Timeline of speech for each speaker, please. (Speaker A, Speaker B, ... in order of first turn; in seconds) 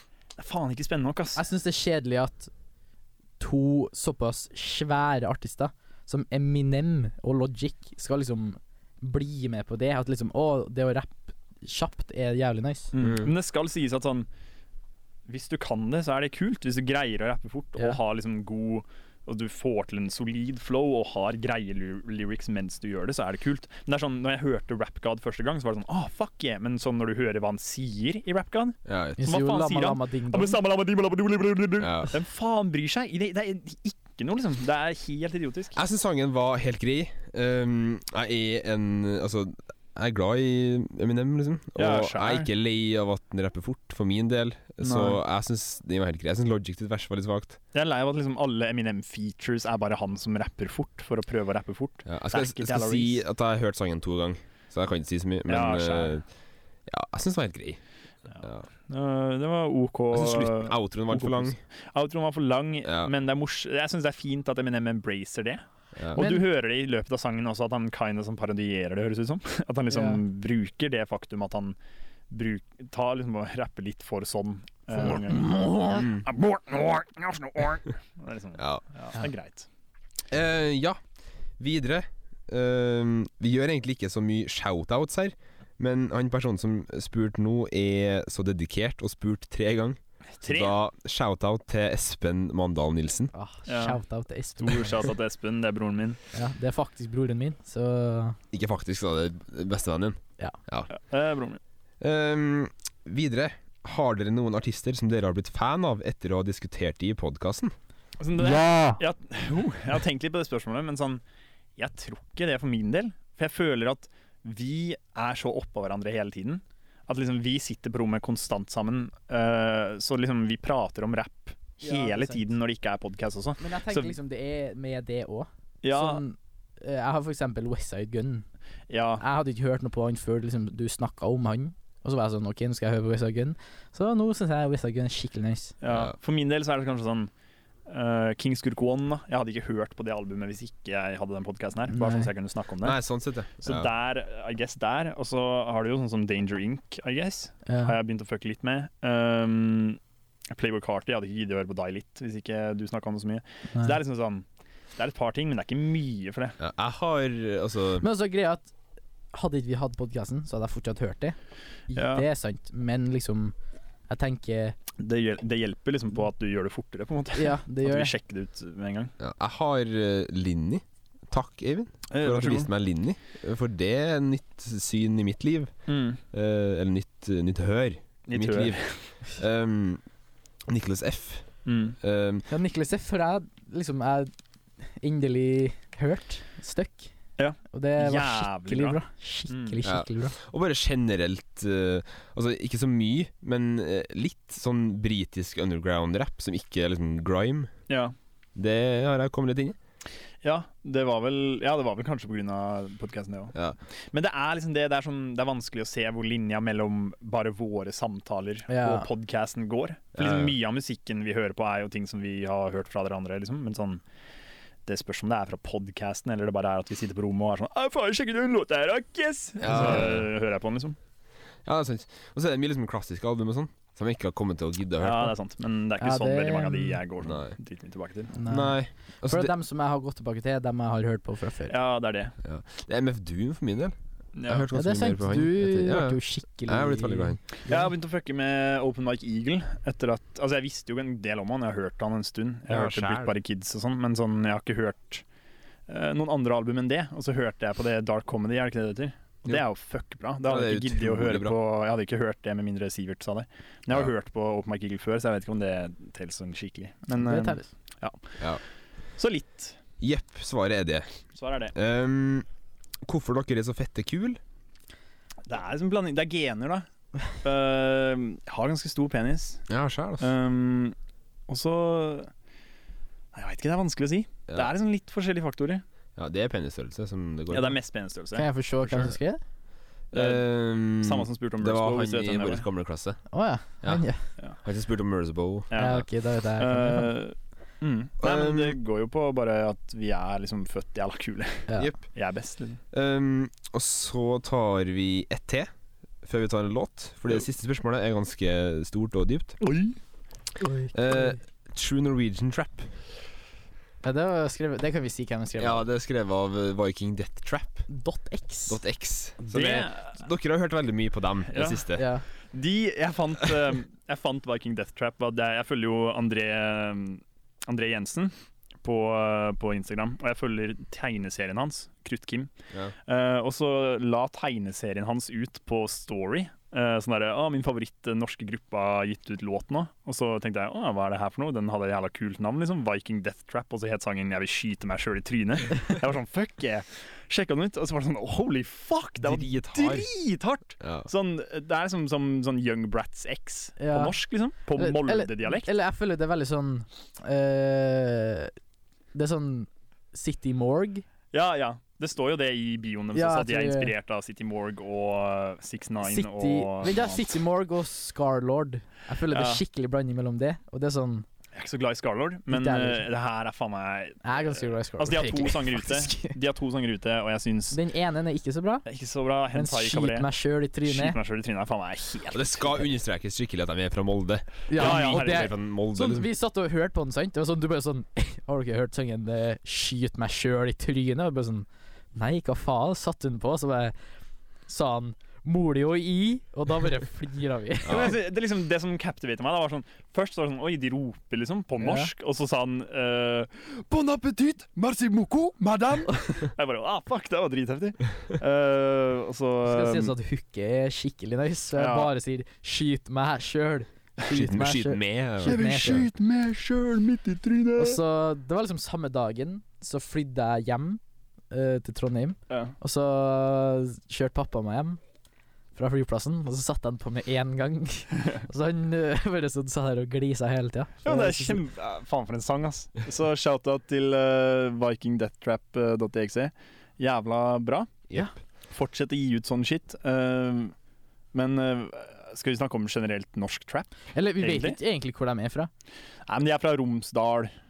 Speaker A: 0.4-1.4, 12.9-14.3, 15.3-35.8, 41.8-42.5, 44.8-45.2, 47.7-53.2, 55.5-56.2, 58.3-71.8, 72.3-79.7, 90.4-90.8, 93.7-94.0, 94.6-96.2, 100.9-101.6, 108.2-111.2, 111.8-124.2, 125.8-126.2, 128.9-129.2, 135.8-137.3, 137.9-143.0, 143.6-150.0, 150.5-154.4, 155.0-156.6, 161.9-162.3, 165.0-169.1, 172.1-172.7, 175.9-176.2, 178.3-179.1, 181.7-182.0, 187.4-189.8, 197.9-198.1, 200.4-203.6, 204.1-214.0, 214.9-221.0, 225.0-228.3, 231.7-232.3, 234.3-234.7, 237.7-245.2, 245.9-258.6, 259.2-259.8, 261.4-261.7, 265.5-266.9, 267.4-269.7, 270.2-270.9, 271.5-272.3, 273.3-275.8, 277.5-279.1, 280.1-282.7, 285.7-286.1, 286.6-292.8, 299.6-300.0, 309.5-310.1, 311.5-311.8, 312.5-322.5, 323.1-345.7, 351.3-357.4, 359.3-359.6, 361.6-367.8, 368.9-370.3, 370.9-372.8, 374.7-375.5, 387.9-400.1, 401.8-402.1, 405.4-408.0, 412.5-412.8, 421.1-427.9, 428.7-430.7, 431.3-434.8, 436.3-437.5
Speaker B: 1.4-2.5, 3.4-12.9, 29.2-30.6, 66.2-66.5, 69.9-70.2, 75.0-76.0, 93.3-95.0, 96.3-98.4, 108.5-109.0, 121.8-122.5, 123.6-128.4, 129.2-135.7, 141.9-142.3, 147.7-148.0, 158.0-158.7, 159.3-161.4, 161.9-163.5, 164.1-164.8, 167.4-168.1, 182.5-184.3, 184.9-187.1, 187.7-190.3, 208.7-209.1, 226.0-227.0, 228.3-231.8, 234.7-237.9, 257.2-257.7, 278.3-279.4, 283.3-284.2, 285.8-287.1, 300.6-301.4, 304.0-305.9, 307.9-308.8, 312.0-312.2, 343.8-344.1, 344.8-348.5, 349.1-351.1, 353.1-353.9, 356.0-361.3, 362.5-363.1, 364.2-366.4, 367.7-368.9, 369.5-371.2, 374.7-383.9, 384.7-388.1, 391.8-392.1, 399.6-406.1, 407.8-411.0, 411.5-415.0, 415.8-421.6, 434.1-435.7
Speaker C: 13.0-13.3, 28.9-29.2, 31.8-32.1, 35.8-47.6, 52.1-56.2, 56.9-57.8, 58.4-58.7, 60.1-61.6, 62.9-63.1, 66.0-66.2, 76.0-76.2, 78.6-78.8, 80.3-81.0, 81.6-93.3, 98.5-100.9, 102.0-107.7, 135.9-136.1, 142.8-143.9, 156.6-158.1, 169.2-175.7, 176.3-180.0, 180.7-181.5, 182.0-182.5, 189.8-197.7, 198.6-199.8, 210.2-210.6, 219.6-220.3, 221.7-225.3, 227.2-227.6, 228.5-229.5, 232.4-237.4, 242.7-243.3, 250.5-251.6, 260.0-261.1, 261.7-262.5, 263.0-264.4, 269.7-270.3, 276.2-277.8, 280.1-283.2, 284.6-285.8, 288.2-288.8, 291.8-292.0, 292.9-295.7, 296.2-299.6, 300.9-302.9, 305.6-307.9, 308.7-312.1, 339.2-340.1, 340.8-341.1, 372.3-376.3, 387.9-388.1, 404.3-405.9